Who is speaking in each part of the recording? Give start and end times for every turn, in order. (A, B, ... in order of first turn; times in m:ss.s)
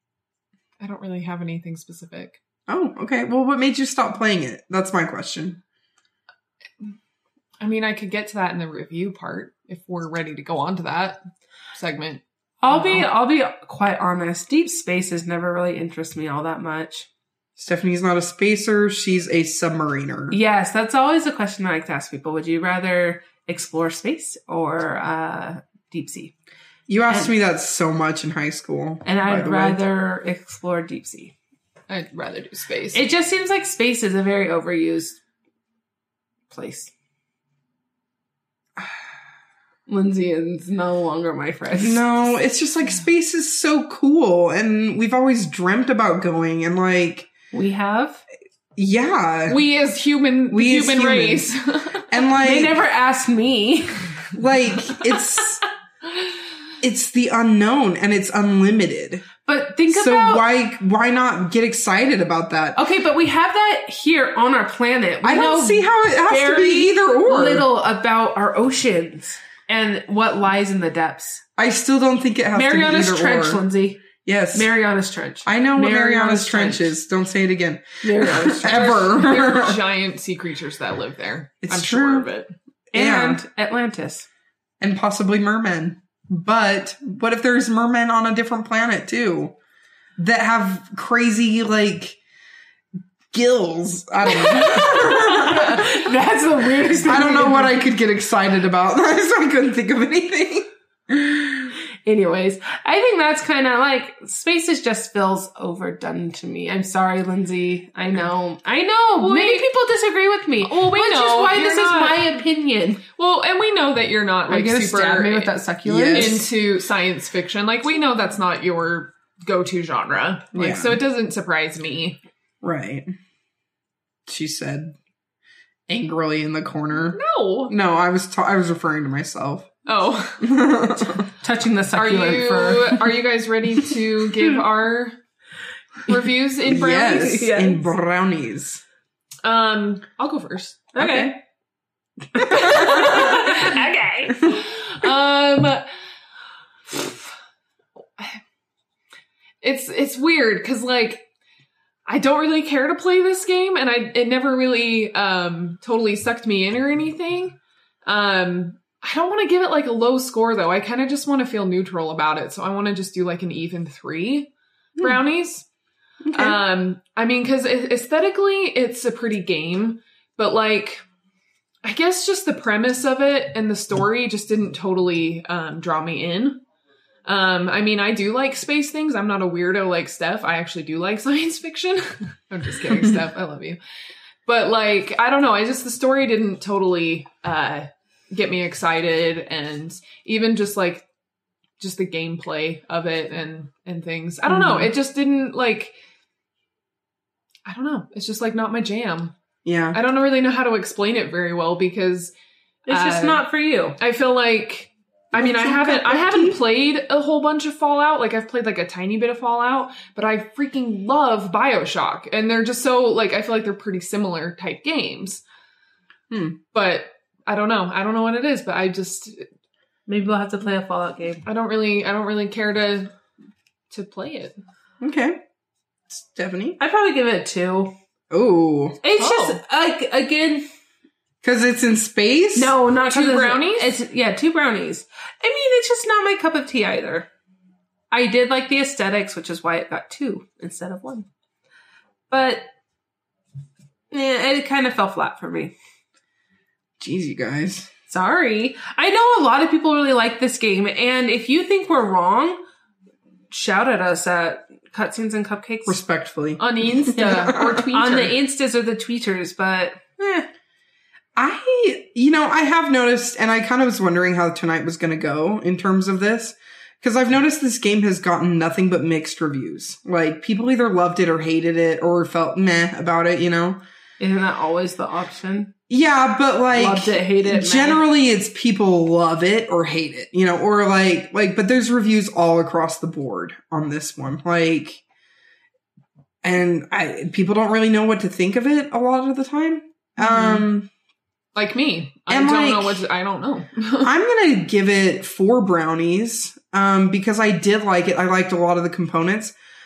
0:00.8-0:02.4 A
0:02.7-0:05.6 B
0:07.6-0:11.2 A
0:11.7-0:13.1 A
0:12.6-0:17.1 C
0:17.6-0:20.4 B
0:20.3-0:26.3 C
0:26.9-0:29.8 B
0:29.0-0:31.3 C
0:31.9-0:33.0 A
0:32.9-0:35.2 C
0:36.5-0:36.9 C
0:39.9-0:42.0 C
0:41.8-0:47.3 B
0:47.5-0:48.2 C
0:48.8-0:49.6 B
0:49.5-0:52.1 A
0:50.5-0:51.5 B
0:52.1-0:52.8 B
0:52.4-0:54.1 C
0:54.3-0:55.6 B
0:56.8-0:59.3 B
0:59.4-1:00.4 C
0:59.9-1:02.8 B
1:02.8-1:11.4 C
1:05.2-1:07.7 B
1:11.6-1:13.6 B
1:12.5-1:16.9 C
1:14.2-1:14.7 B
1:15.4-1:19.8 B
1:18.0-1:19.0 C
1:18.6-1:22.5 A
1:21.6-1:22.3 B
1:22.9-1:23.4 B
1:22.9-1:24.3 C
1:24.8-1:29.5 B
1:30.2-1:32.2 B
1:33.3-1:36.0 B
1:34.3-1:37.7 C
1:37.0-1:41.7 B
1:42.0-1:53.0 C
1:49.2-1:49.6 A
1:50.6-1:52.2 A
1:53.2-1:55.5 A
1:54.5-1:56.5 C
1:55.8-1:56.4 B
1:56.1-2:02.2 A
2:00.5-2:01.0 B
2:02.6-2:03.1 B
2:04.3-2:04.9 B
2:05.9-2:09.7 B
2:07.1-2:07.7 A
2:09.8-2:10.4 A
2:10.4-2:11.3 B
2:11.4-2:13.1 C
2:11.9-2:15.2 A
2:16.1-2:17.4 A
2:16.6-2:18.8 B
2:17.0-2:17.8 C
2:19.4-2:21.3 A
2:20.9-2:21.4 B
2:21.0-2:21.3 C
2:22.3-2:23.5 B
2:22.4-2:25.8 A
2:22.8-2:23.7 C
2:26.9-2:27.2 A
2:29.6-2:31.2 A
2:32.1-2:45.6 A
2:46.2-2:46.6 B
2:46.3-2:51.0 A
2:51.8-2:56.6 A
2:57.2-3:03.8 A
3:02.9-3:03.2 B
3:04.4-3:11.0 A
3:11.8-3:15.9 A
3:14.5-3:14.9 B
3:17.6-3:19.3 A
3:19.6-3:20.0 B
3:19.9-3:22.3 A
3:22.9-3:24.0 C
3:22.9-3:23.4 A
3:24.0-3:35.4 A
3:25.3-3:26.6 B
3:36.3-3:36.6 B
3:36.7-3:39.4 A
3:40.1-3:41.4 C
3:41.4-3:43.1 A
3:43.9-3:44.5 A
3:45.0-3:45.4 B
3:46.1-3:46.8 B
3:46.8-3:48.0 C
3:48.3-3:49.0 B
3:49.0-3:50.6 C
3:49.2-3:49.6 A
3:51.4-3:52.7 B
3:52.5-3:57.3 C
3:53.1-3:53.9 A
3:58.1-4:01.3 C
4:02.3-4:02.7 C
4:04.1-4:05.7 C
4:07.0-4:07.9 B
4:08.1-4:12.6 C
4:13.5-4:16.0 C
4:15.8-4:17.8 B
4:16.6-4:18.4 A
4:17.2-4:20.4 C
4:21.4-4:33.8 B
4:34.2-4:35.7 C
4:35.9-4:45.0 B
4:36.7-4:38.0 C
4:46.4-4:50.9 B
4:50.2-4:50.6 A
4:51.5-4:54.1 A
4:52.3-4:53.0 B
4:54.0-4:59.5 B